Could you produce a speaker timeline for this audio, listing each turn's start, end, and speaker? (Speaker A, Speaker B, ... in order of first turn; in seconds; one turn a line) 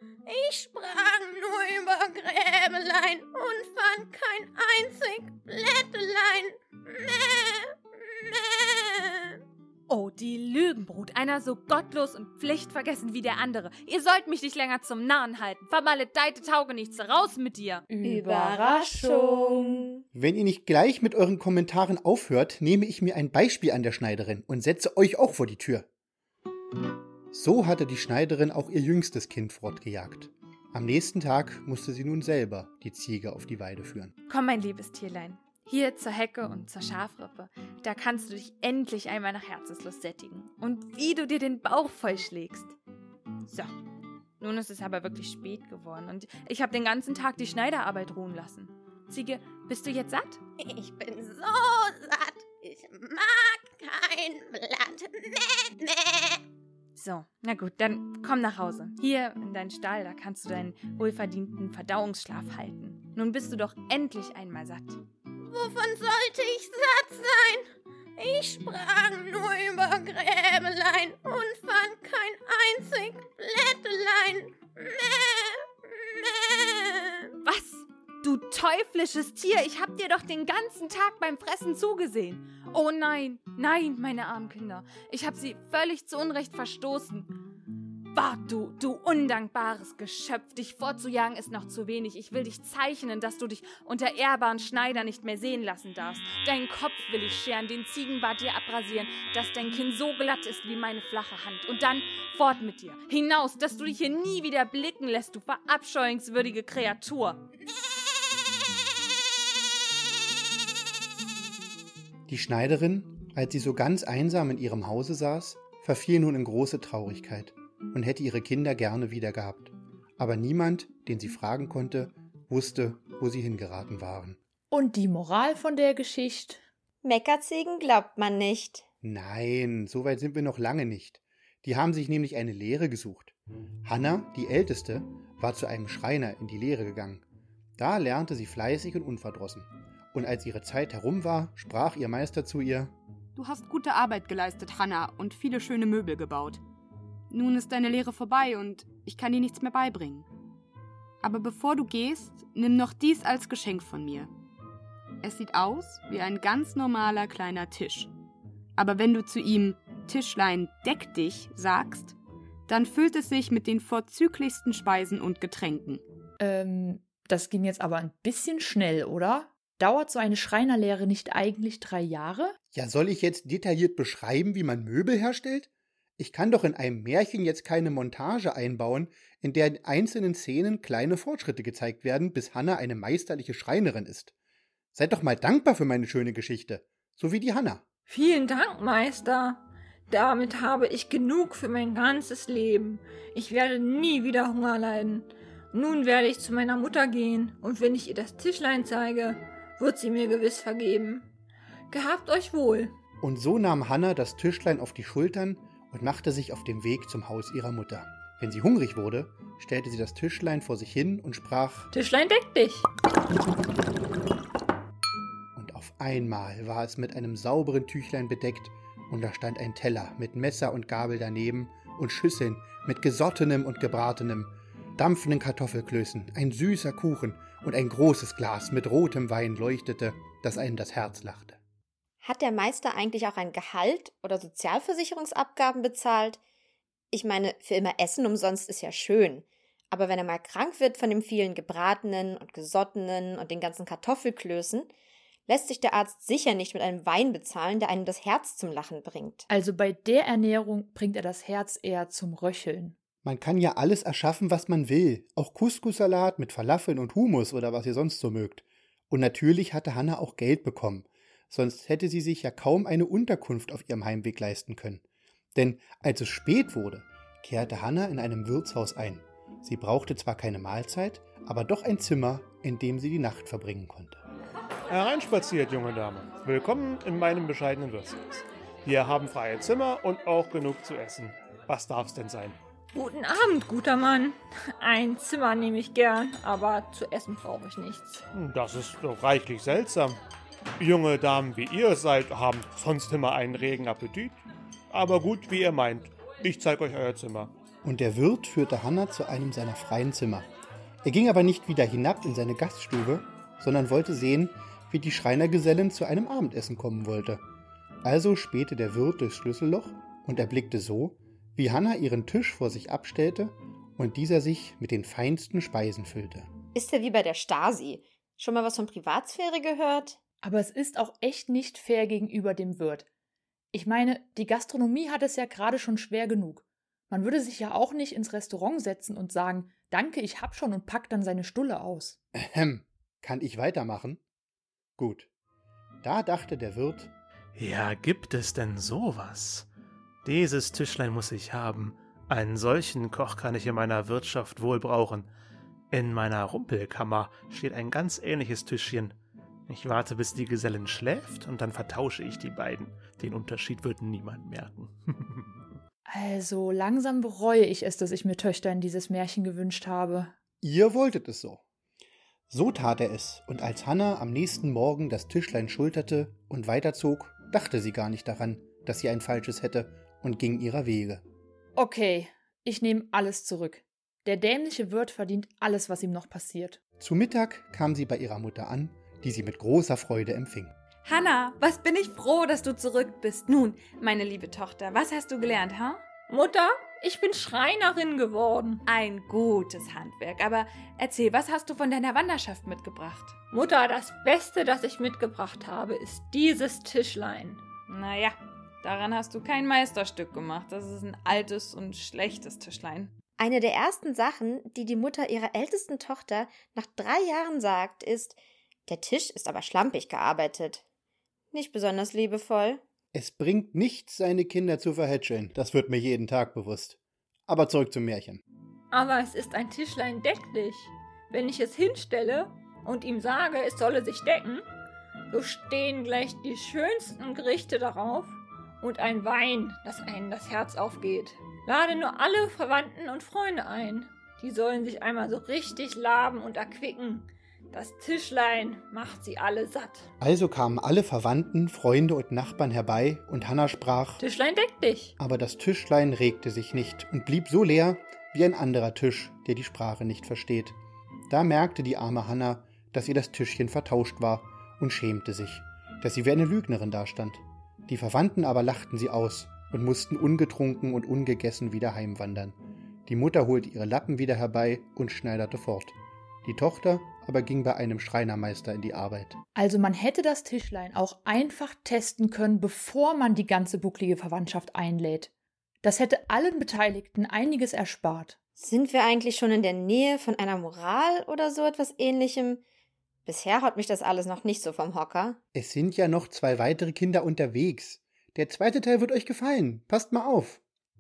Speaker A: 0.2-9.4
Speaker B: 9.9-17.9
Speaker C: 17.9-19.8
Speaker D: 18.0-20.0
Speaker E: 20.1-25.9
Speaker E: 27.3-34.1
Speaker B: 34.3-42.7
Speaker B: 43.5-43.7
Speaker B: 44.4-50.4
Speaker A: 50.6-56.4
Speaker B: 56.9-65.0
Speaker A: 65.4-77.3
Speaker B: 77.4-87.3
Speaker B: 88.1-107.4
Speaker E: 112.3-124.4
Speaker C: 124.7-126.6
Speaker D: 127.0-128.8
Speaker E: 129.0-133.3
Speaker E: 133.8-137.2
Speaker E: 137.8-142.9
Speaker F: 143.3-146.6
Speaker F: 147.3-150.3
Speaker F: 151.2-154.3
Speaker F: 155.2-158.1
Speaker F: 158.7-162.2
Speaker F: 162.7-166.0
Speaker C: 166.4-172.6
Speaker E: 172.7-184.3
Speaker E: 184.9-187.8
Speaker G: 188.1-201.3
Speaker G: 201.9-202.9
Speaker E: 203.2-211.9
Speaker G: 211.9-212.9
Speaker E: 215.5-231.6
Speaker D: 232.2-236.4
Speaker D: 237.1-244.9
Speaker D: 245.5-249.5
Speaker C: 249.5-252.9
Speaker E: 253.2-265.0
Speaker E: 265.5-274.2
Speaker H: 274.9-278.2
Speaker H: 278.8-282.6
Speaker G: 282.9-288.2
Speaker H: 288.3-290.2
Speaker H: 290.8-294.4
Speaker H: 294.9-297.5
Speaker E: 297.8-300.5
Speaker E: 301.0-307.4
Speaker E: 308.0-316.5
Speaker D: 316.7-320.2
Speaker C: 320.4-323.1
Speaker C: 323.7-332.2
Speaker E: 332.3-334.2
Speaker E: 335.0-335.3
Speaker E: 336.0-337.1
Speaker H: 337.6-339.7
Speaker H: 340.2-345.3
Speaker H: 345.9-349.1
Speaker H: 349.7-355.5
Speaker C: 356.1-360.3
Speaker E: 360.6-361.6
Speaker E: 362.5-371.2
Speaker C: 371.8-376.8
Speaker E: 377.0-380.7
Speaker B: 381.0-386.0
Speaker G: 386.3-388.8
Speaker B: 388.9-393.4
Speaker G: 393.5-397.6
Speaker B: 397.9-403.1
Speaker D: 403.4-410.8
Speaker D: 411.5-412.8
Speaker E: 413.1-418.4
Speaker G: 418.9-424.6
Speaker G: 425.3-440.1
Speaker E: 440.2-444.2
Speaker G: 444.2-445.1
Speaker E: 445.2-450.8
Speaker E: 451.3-469.4
Speaker C: 469.5-475.3
Speaker C: 475.8-478.4
Speaker D: 478.6-482.6
Speaker D: 483.2-485.4
Speaker E: 485.5-490.6